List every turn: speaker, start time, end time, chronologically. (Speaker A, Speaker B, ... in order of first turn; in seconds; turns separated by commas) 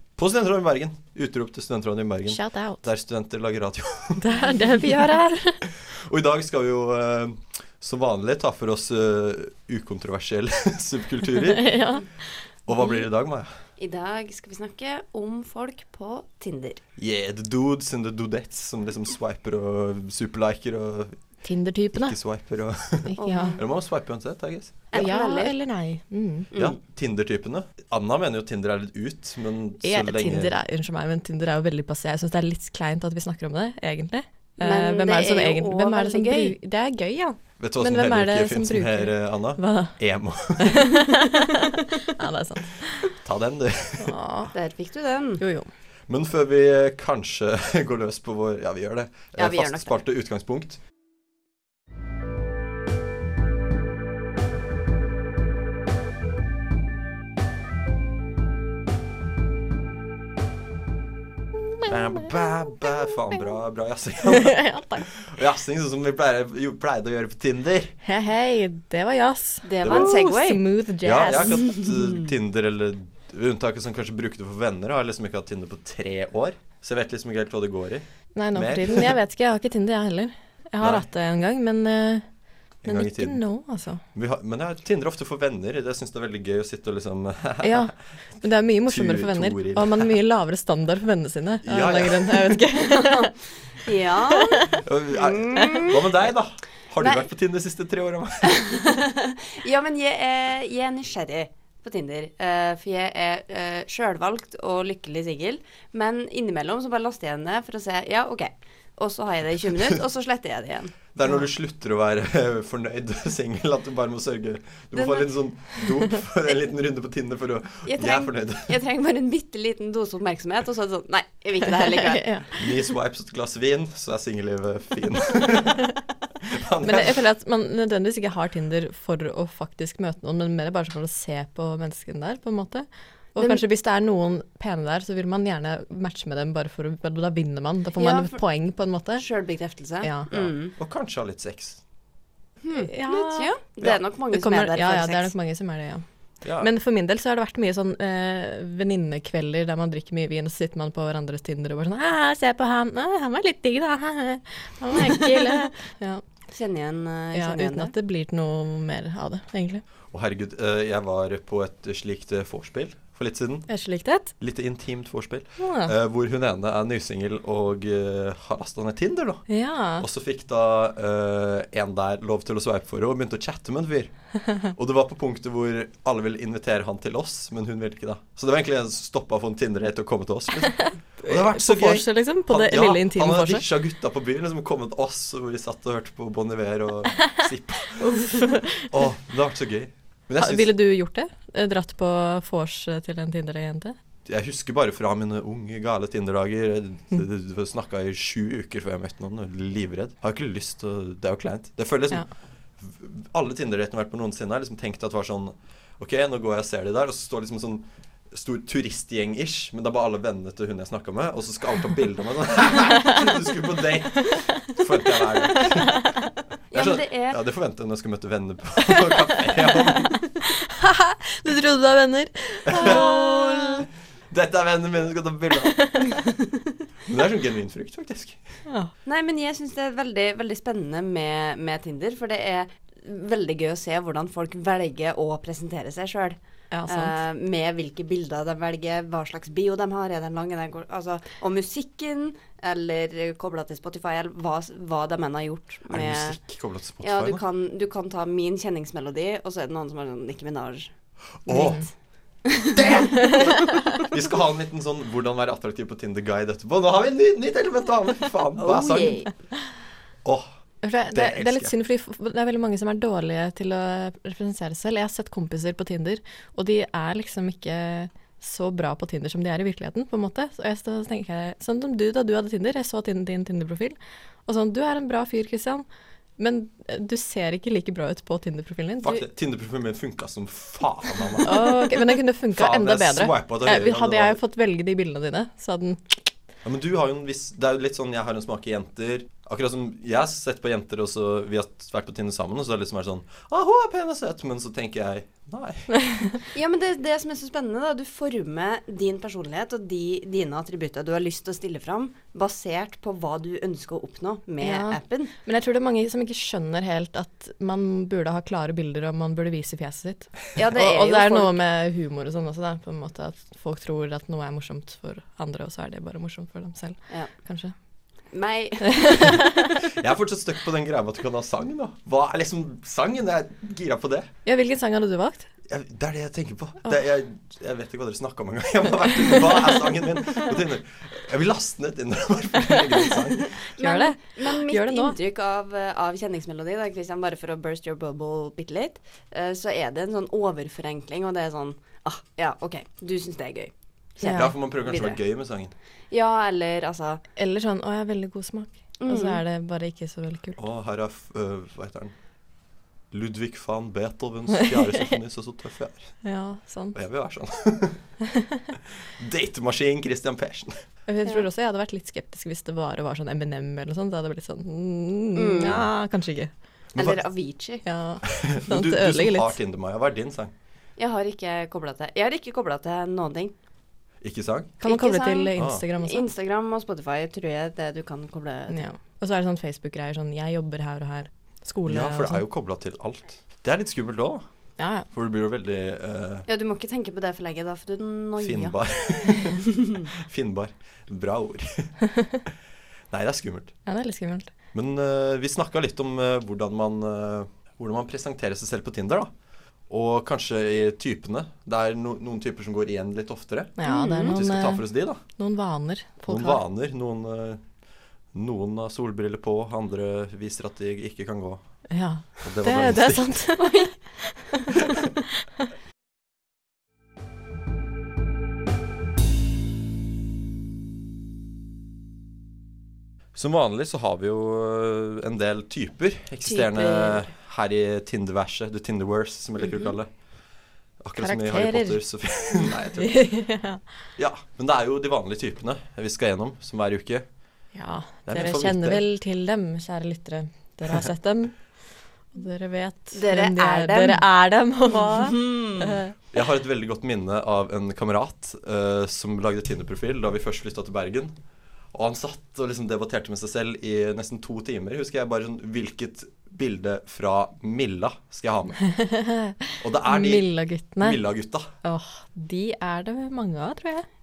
Speaker A: 0.2-4.3, Speaker B: 2.3-2.8, Speaker B: 4.2-5.7, Speaker A: 5.7-11.7, Speaker B: 11.5-12.1, Speaker A: 12.7-13.5, Speaker C: 13.8-16.8, Speaker A: 17.0-21.2, Speaker B: 21.4-22.2, Speaker A: 21.9-25.1, Speaker B: 23.1-23.6, Speaker C: 23.2-23.6, Speaker C: 24.9-25.6, Speaker B: 24.9-26.5, Speaker A: 26.5-30.6, Speaker B: 29.8-40.0, Speaker C: 34.6-36.5, Speaker A: 37.6-41.0, Speaker B: 40.6-43.1, Speaker A: 43.1-44.1, Speaker B: 44.0-44.5, Speaker C: 44.5-45.4, Speaker B: 45.4-45.7, Speaker A: 46.1-50.8, Speaker C: 49.4-50.0, Speaker A: 61.9-67.9, Speaker B: 64.3-65.1, Speaker B: 68.0-71.7, Speaker C: 69.7-70.6, Speaker A: 69.8-70.1, Speaker A: 71.0-79.2, Speaker C: 71.2-72.3, Speaker B: 78.4-82.3, Speaker A: 80.8-81.1, Speaker A: 82.8-83.4, Speaker B: 82.9-84.0, Speaker A: 84.1-87.9, Speaker B: 87.6-93.3, Speaker A: 88.9-90.1, Speaker A: 91.6-92.6, Speaker C: 93.0-96.1, Speaker B: 94.2-94.8, Speaker A: 94.8-98.6, Speaker C: 98.4-111.0, Speaker A: 111.2-118.7, Speaker C: 115.0-115.3, Speaker C: 117.9-122.6, Speaker B: 121.9-122.5, Speaker A: 122.6-127.2, Speaker B: 126.8-139.2, Speaker C: 138.0-138.4, Speaker C: 139.2-140.8, Speaker B: 140.0-140.3, Speaker A: 140.3-141.8, Speaker C: 142.6-145.3, Speaker B: 142.7-143.5, Speaker B: 144.3-146.0, Speaker A: 146.4-146.7, Speaker B: 146.6-156.2, Speaker C: 155.0-155.6, Speaker C: 156.5-157.9, Speaker B: 157.3-159.8, Speaker A: 160.1-163.7, Speaker B: 163.7-164.3, Speaker A: 164.4-169.5, Speaker B: 165.6-165.9, Speaker B: 169.5-170.1, Speaker A: 170.0-174.1, Speaker A: 174.7-190.7, Speaker B: 180.7-183.6, Speaker B: 188.0-188.9, Speaker B: 190.4-194.0, Speaker A: 194.2-202.2, Speaker A: 202.8-216.1, Speaker B: 215.5-216.2, Speaker C: 216.7-217.4, Speaker A: 216.7-220.2, Speaker B: 218.8-223.9, Speaker A: 222.7-223.8, Speaker C: 222.8-223.6, Speaker A: 224.3-226.0, Speaker B: 225.6-226.1, Speaker A: 227.1-228.4, Speaker B: 228.7-228.9, Speaker C: 229.1-246.4, Speaker B: 236.7-237.2, Speaker A: 245.9-247.4, Speaker C: 247.0-250.9, Speaker A: 251.4-251.8, Speaker B: 251.5-251.8, Speaker A: 252.8-253.5, Speaker B: 252.9-254.0, Speaker A: 254.1-259.2, Speaker C: 258.6-259.3, Speaker B: 260.8-275.9, Speaker A: 261.1-261.7, Speaker B: 276.4-279.2, Speaker A: 279.0-282.0, Speaker B: 281.4-286.1, Speaker A: 282.5-284.4, Speaker A: 286.6-295.9, Speaker B: 295.9-296.4, Speaker C: 296.5-305.3, Speaker B: 304.6-317.8, Speaker C: 310.6-311.6, Speaker C: 318.3-319.4, Speaker B: 318.9-319.8, Speaker A: 319.8-324.3, Speaker B: 324.4-325.5, Speaker A: 325.7-333.6, Speaker C: 333.8-345.2, Speaker B: 333.8-335.2, Speaker B: 344.2-344.5, Speaker A: 344.2-345.7, Speaker C: 346.1-347.2, Speaker B: 347.4-350.6, Speaker C: 349.0-349.4, Speaker A: 350.6-352.1, Speaker A: 353.1-356.1, Speaker B: 354.6-355.1, Speaker B: 356.2-357.0, Speaker A: 356.9-358.0, Speaker B: 358.2-358.6, Speaker A: 359.1-360.8, Speaker B: 361.1-366.5, Speaker C: 365.4-365.8, Speaker A: 365.6-365.9, Speaker C: 366.9-367.8, Speaker B: 367.8-369.6, Speaker A: 368.2-370.5, Speaker C: 371.0-373.5, Speaker A: 374.2-374.8, Speaker C: 374.8-378.9, Speaker B: 374.8-376.3, Speaker A: 375.6-375.8, Speaker B: 378.7-382.4, Speaker A: 381.9-384.4, Speaker B: 384.8-385.1, Speaker A: 385.1-386.5, Speaker C: 386.5-388.8, Speaker A: 388.4-391.9, Speaker C: 389.6-390.1, Speaker B: 392.1-392.4, Speaker A: 393.1-393.7, Speaker B: 393.9-394.5, Speaker A: 394.7-399.3, Speaker A: 399.9-405.2, Speaker B: 403.8-404.8, Speaker C: 403.8-404.4, Speaker B: 405.4-406.6, Speaker A: 406.3-407.6, Speaker A: 408.3-411.6, Speaker B: 411.9-415.4, Speaker A: 412.4-413.4, Speaker C: 413.6-413.9, Speaker A: 414.8-415.1, Speaker A: 423.4-430.1, Speaker C: 426.5-427.3, Speaker A: 431.0-433.2, Speaker B: 431.2-432.0, Speaker B: 432.5-433.8, Speaker A: 434.2-437.2, Speaker B: 437.7-441.6, Speaker A: 438.3-439.0, Speaker B: 442.3-446.2, Speaker C: 443.1-444.2, Speaker C: 444.9-446.0, Speaker A: 446.3-451.3, Speaker A: 451.9-458.8, Speaker B: 458.8-461.2, Speaker A: 459.8-460.5, Speaker A: 461.0-461.7, Speaker B: 461.8-464.1